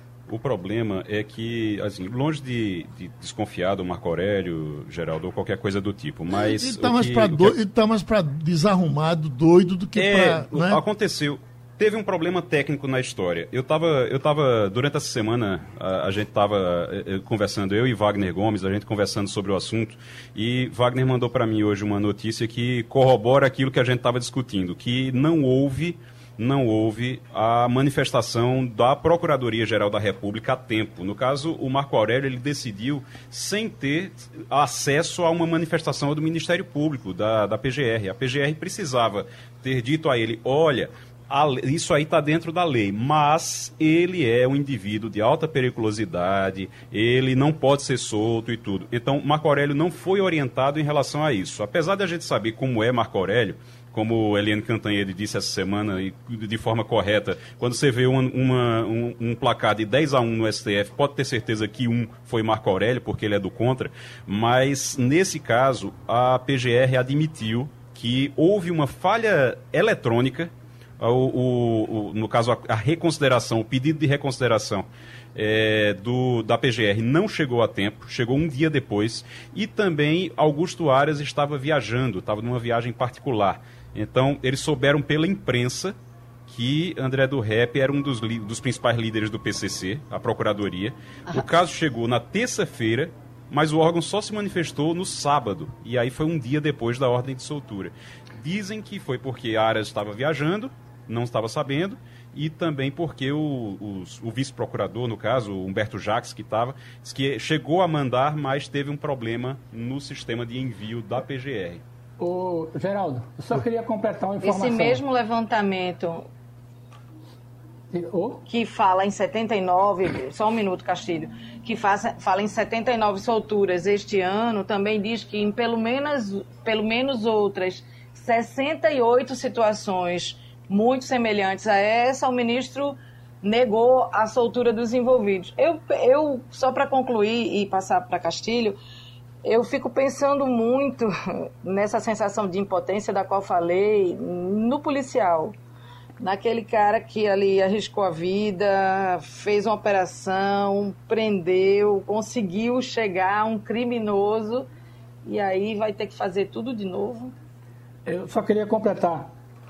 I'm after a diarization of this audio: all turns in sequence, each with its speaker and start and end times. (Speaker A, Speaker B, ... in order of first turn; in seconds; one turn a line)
Speaker A: 0.3-7.5
Speaker B: 6.3-10.8
Speaker A: 9.9-86.0
Speaker A: 86.5-111.8
Speaker C: 112.2-115.0
Speaker D: 114.4-116.2
Speaker C: 117.9-118.4
Speaker D: 118.5-138.8
Speaker D: 139.4-145.6
Speaker D: 146.2-154.7
Speaker D: 155.2-157.3
Speaker C: 158.1-159.3